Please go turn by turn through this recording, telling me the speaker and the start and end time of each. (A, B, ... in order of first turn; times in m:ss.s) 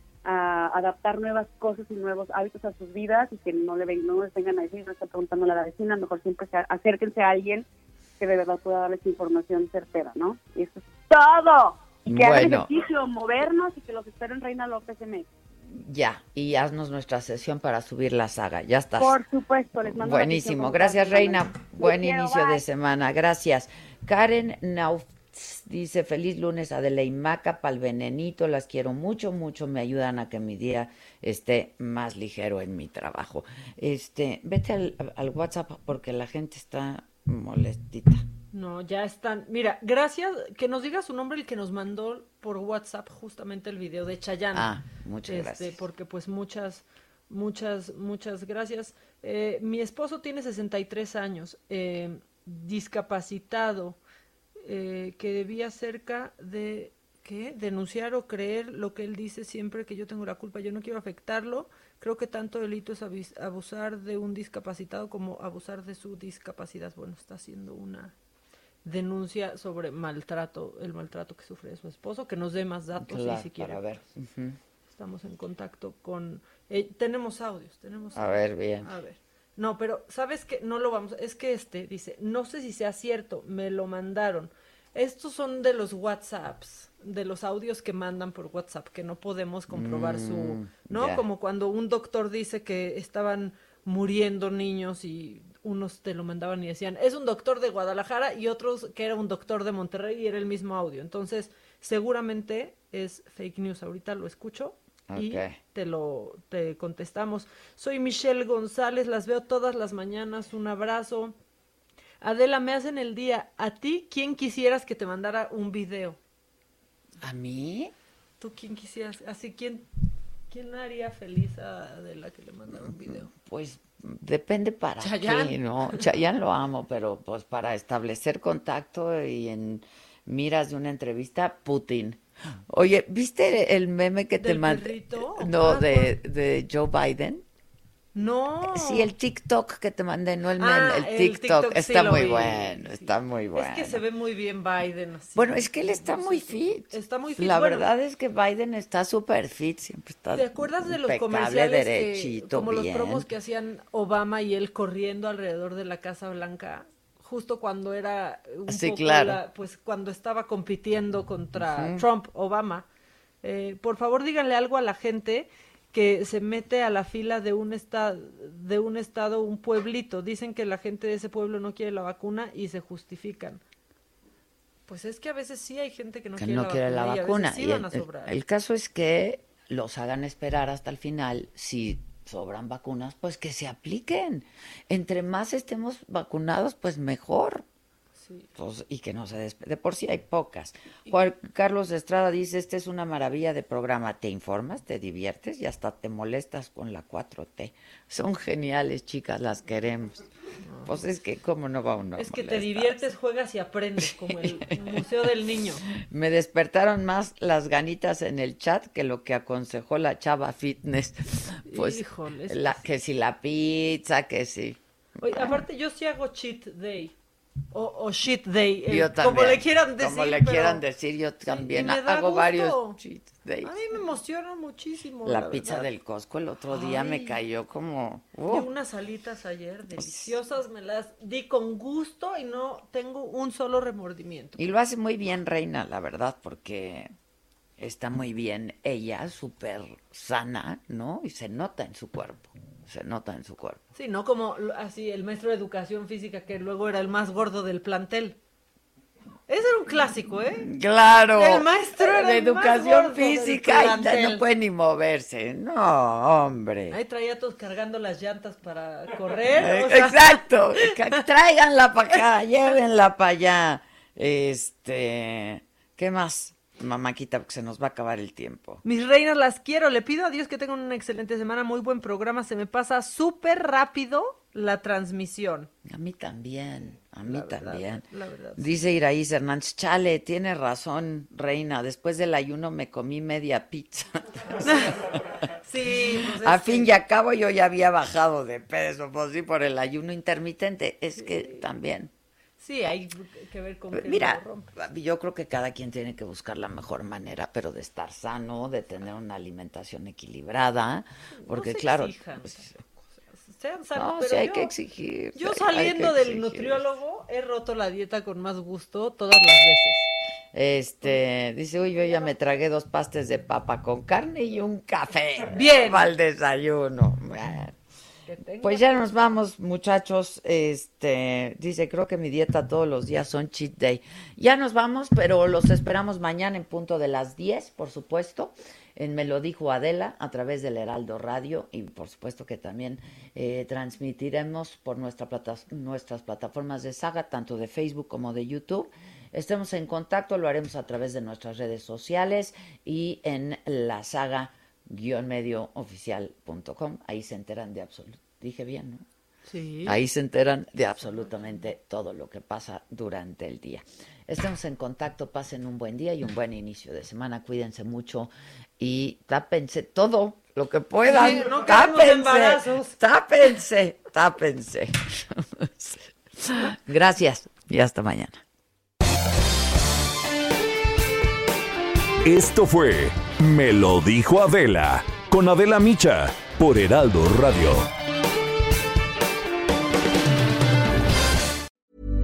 0:00.2-0:07.6 A
0:08.2-0:15.3 A
0:12.1-0:12.7 B
0:15.6-0:19.2 B
0:19.0-0:22.6 A
0:19.8-0:38.2 B
0:38.5-0:44.7 C
0:44.5-0:45.8 B
0:45.3-0:54.0 C
0:54.6-1:08.1 C
1:08.8-1:13.9 C
1:13.0-1:14.6 B
1:14.9-1:51.4 C
1:18.1-1:18.9 B
1:29.7-1:31.2 B
1:45.1-1:45.6 B
1:52.2-1:56.2 C
1:57.2-1:57.9 B
1:58.4-1:59.9 C
2:00.5-2:03.3 C
2:02.7-2:17.4 B
2:05.0-2:06.0 C
2:14.4-2:16.1 C
2:18.1-2:19.1 C
2:18.7-2:24.0 B
2:20.6-2:27.9 C
2:25.3-2:33.3 B
2:30.3-2:42.8 C
2:38.6-2:39.4 B
2:41.6-2:42.0 B
2:43.4-2:53.6 C
2:54.9-2:58.3 C
2:56.4-3:07.6 B
3:08.2-3:08.5 C
3:08.6-3:20.2 B
3:20.6-3:20.9 C
3:20.8-3:23.1 B
3:22.2-3:25.8 C
3:24.0-3:25.2 B
3:25.9-3:35.6 B
3:31.7-3:32.8 C
3:35.2-3:37.1 C
3:37.7-3:40.8 C
3:38.9-3:43.8 B
3:41.4-3:43.0 C
3:43.6-3:45.9 C
3:45.2-3:48.7 B
3:46.7-3:47.4 C
3:48.5-3:54.6 C
3:49.9-3:50.4 B
3:54.6-3:57.1 B
3:57.8-4:03.8 B
4:03.9-4:08.4 C
4:09.5-4:10.7 C
4:10.6-4:17.0 B
4:11.3-4:14.4 C
4:16.9-4:21.2 C
4:19.5-4:28.8 B
4:28.8-4:35.7 C
4:35.8-4:38.0 B
4:37.2-4:38.8 C
4:38.6-4:45.3 B
4:44.6-4:45.0 C
4:45.6-4:46.9 C
4:45.9-4:52.1 B
4:51.2-4:51.6 C
4:52.6-4:54.7 C
4:53.9-5:02.8 B
5:01.4-5:02.7 C
5:03.3-5:04.7 C
5:03.9-5:06.9 B
5:05.3-5:10.1 C
5:10.5-5:17.8 B
5:12.0-5:12.3 C
5:15.5-5:16.1 C
5:18.3-5:18.9 C
5:18.6-5:49.0 B
5:49.4-5:50.0 C
5:49.8-6:08.4 B
6:01.0-6:02.9 C
6:12.2-6:17.8 D